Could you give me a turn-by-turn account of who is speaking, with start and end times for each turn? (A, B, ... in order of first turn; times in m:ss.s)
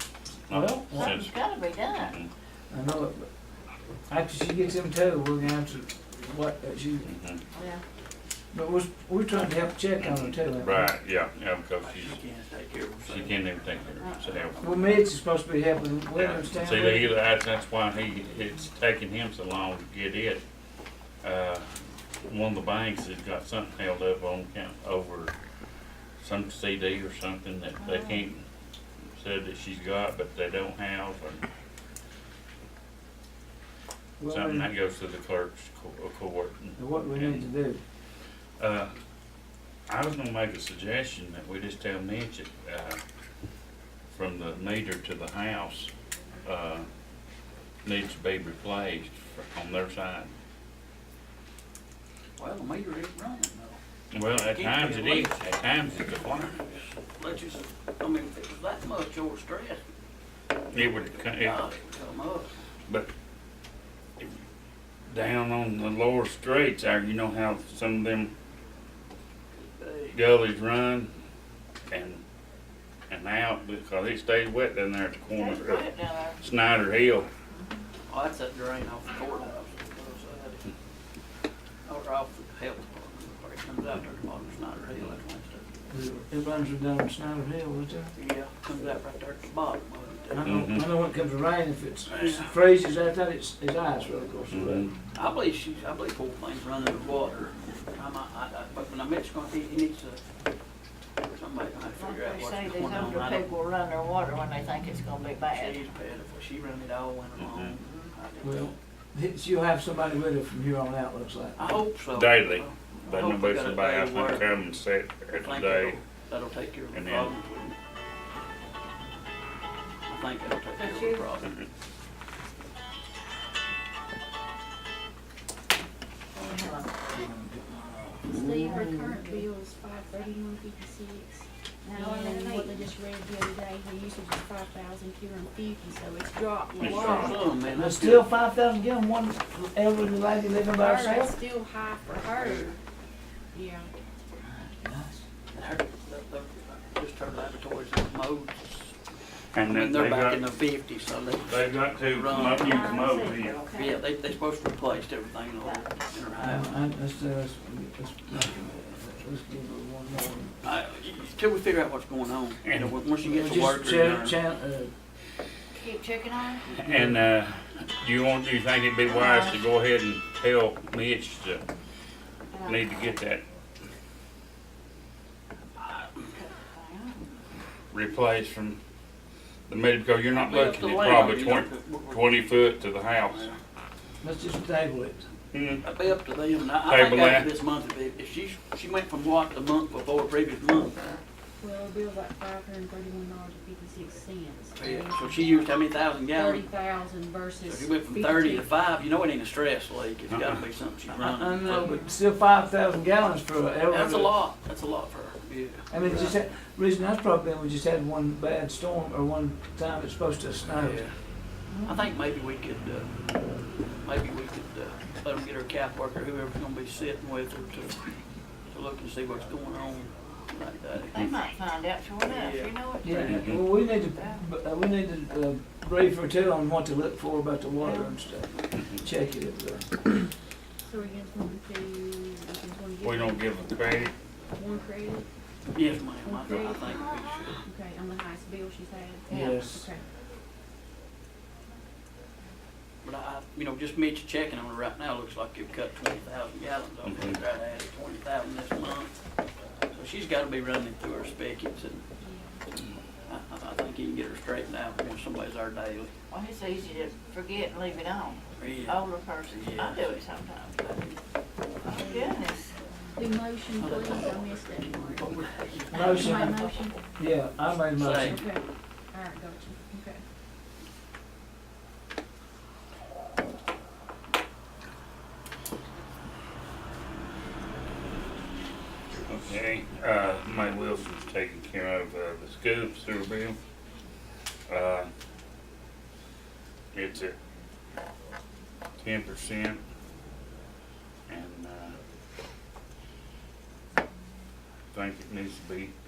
0:00.5-0:01.3 A
0:00.5-0:01.2 B
0:00.9-0:02.1 C
0:01.9-0:02.3 A
0:02.7-0:03.3 B
0:04.1-0:07.1 B
0:07.0-0:07.4 A
0:07.5-0:07.8 C
0:08.5-0:10.9 B
0:10.0-0:12.2 A
0:11.8-0:15.0 D
0:13.0-0:14.7 A
0:14.6-0:17.1 B
0:16.1-0:20.4 A
0:21.2-0:25.3 A
0:26.2-0:28.4 A
0:27.8-0:28.2 C
0:29.1-0:31.4 A
0:34.2-0:34.7 B
0:34.3-0:37.4 A
0:36.8-0:37.8 B
0:38.6-0:38.9 A
0:39.9-0:43.0 A
0:44.1-0:45.9 A
0:46.4-0:46.8 A
0:47.8-0:50.3 A
0:52.4-0:53.8 D
0:54.1-0:56.6 A
0:54.3-0:55.4 D
0:57.2-0:59.8 D
1:00.7-1:01.6 A
1:00.8-1:02.5 D
1:05.1-1:08.3 A
1:09.8-1:10.1 D
1:10.1-1:11.1 A
1:11.9-1:12.2 A
1:13.1-1:17.3 A
1:15.3-1:16.4 C
1:17.5-1:17.8 C
1:18.1-1:20.6 D
1:21.8-1:25.6 D
1:25.9-1:28.1 B
1:28.1-1:30.5 D
1:30.3-1:34.9 B
1:30.4-1:30.9 A
1:32.1-1:32.5 D
1:34.5-1:34.9 A
1:35.1-1:40.2 D
1:41.2-1:43.5 D
1:42.0-1:45.8 C
1:45.5-1:48.7 D
1:47.4-1:47.7 A
1:48.4-1:51.6 B
1:51.6-1:54.5 D
1:52.1-1:56.0 A
1:55.4-1:57.7 D
1:56.9-1:57.3 A
2:00.1-2:01.5 D
2:00.8-2:01.2 C
2:06.3-2:06.9 C
2:07.1-2:08.4 B
2:08.3-2:17.6 E
2:08.5-2:09.4 C
2:11.8-2:12.9 C
2:16.8-2:17.4 A
2:16.9-2:18.3 D
2:17.7-2:21.3 B
2:20.8-2:22.8 E
2:22.3-2:22.7 D
2:23.5-2:23.9 E
2:24.4-2:25.2 B
2:25.5-2:28.9 D
2:29.5-2:30.4 A
2:29.7-2:32.8 D
2:31.5-2:33.6 A
2:32.3-2:34.0 E
2:33.7-2:36.8 D
2:36.4-2:40.6 B
2:40.6-2:44.4 D
2:42.6-2:42.9 A
2:43.2-2:44.9 B
2:45.7-2:46.7 C
2:46.6-2:47.2 B
2:46.8-2:51.6 A
2:49.0-2:49.6 C
2:52.5-2:52.9 C
2:52.6-2:53.4 A
2:56.3-2:57.2 C
2:57.9-2:58.8 A
2:59.7-3:03.5 A
3:00.3-3:02.5 D
3:03.3-3:03.6 D
3:04.2-3:05.2 B
3:05.5-3:05.8 A
3:05.8-3:11.1 D
3:06.8-3:07.5 A
3:11.6-3:18.7 E
3:14.8-3:16.7 D
3:17.6-3:22.0 D
3:20.3-3:20.6 A
3:21.1-3:24.4 B
3:21.6-3:22.2 E
3:23.9-3:26.4 D
3:25.9-3:31.0 B
3:30.7-3:31.3 D
3:31.8-3:33.3 D
3:34.0-3:41.3 D
3:41.1-3:44.4 C
3:42.2-3:43.5 D
3:43.0-3:50.3 B
3:47.8-3:48.1 C
3:50.8-3:55.3 E
3:53.0-3:54.1 A
3:55.7-3:57.6 D
3:56.2-4:00.0 E
3:59.3-3:59.9 B
3:59.3-3:59.6 C
4:03.0-4:09.2 D
4:07.0-4:07.4 A
4:09.9-4:12.0 D
4:12.2-4:12.6 E
4:13.3-4:16.1 D
4:16.3-4:20.8 C
4:18.5-4:20.2 D
4:20.8-4:21.2 D
4:21.8-4:22.7 C
4:22.0-4:22.6 E
4:23.1-4:27.1 E
4:23.8-4:26.3 D
4:25.9-4:28.4 B
4:26.0-4:26.6 C
4:28.0-4:28.4 D
4:28.2-4:30.2 E
4:39.2-4:43.6 A
4:44.7-4:45.1 A
4:46.9-4:47.4 A
4:49.0-4:49.8 A
4:51.3-4:52.0 A
4:54.9-4:55.9 A